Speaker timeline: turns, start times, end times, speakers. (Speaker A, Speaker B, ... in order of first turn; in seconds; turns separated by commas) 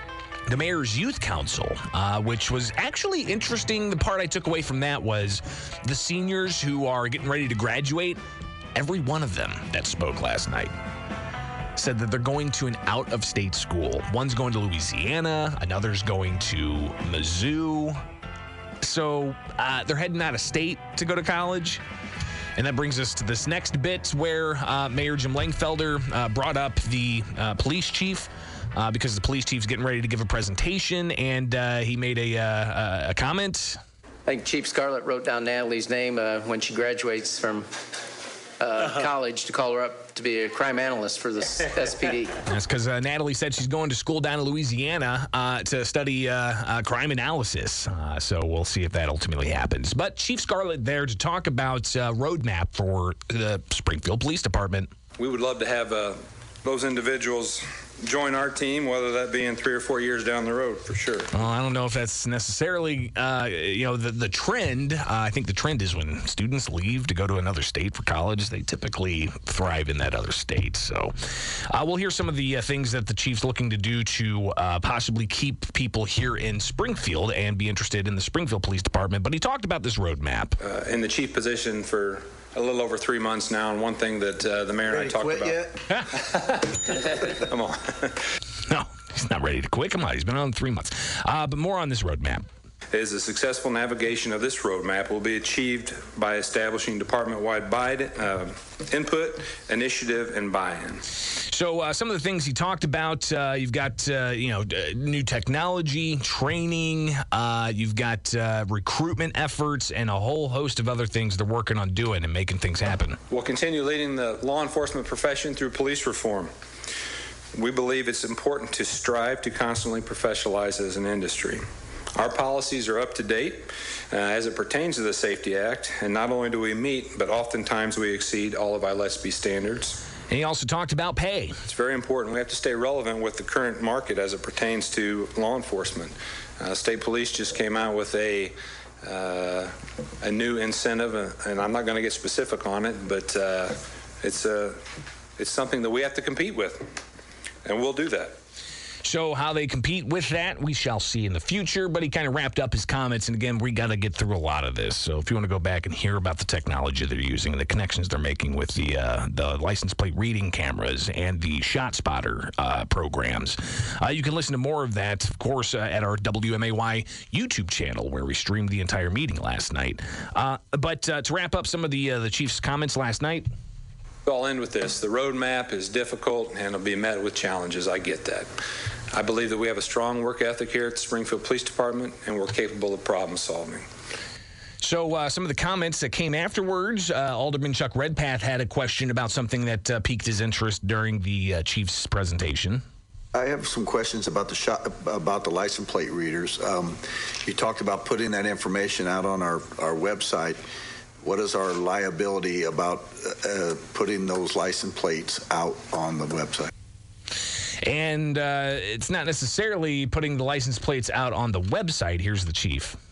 Speaker A: 0.5-8.2, Speaker A: 8.8-10.8, Speaker A: 11.8-18.0, Speaker A: 18.8-21.8, Speaker A: 22.6-33.8, Speaker B: 34.3-37.7, Speaker B: 38.6-42.4, Speaker A: 42.5-54.9, Speaker C: 55.2-61.3, Speaker A: 61.3-80.6, Speaker C: 80.6-85.6, Speaker D: 84.9-85.7, Speaker C: 86.2-88.2, Speaker A: 88.7-92.5, Speaker C: 92.9-101.0, Speaker A: 101.5-113.2, Speaker C: 113.3-116.5, Speaker C: 117.5-121.6, Speaker C: 122.2-130.0, Speaker A: 130.3-131.6, Speaker C: 131.7-144.8, Speaker C: 145.4-146.8, Speaker C: 147.7-148.4, Speaker A: 149.0-173.5, Speaker C: 174.3-178.5, Speaker C: 179.1-183.8, Speaker A: 184.8-192.8, Speaker D: 193.3-200.6, Speaker D: 201.2-206.7, Speaker A: 207.8-213.0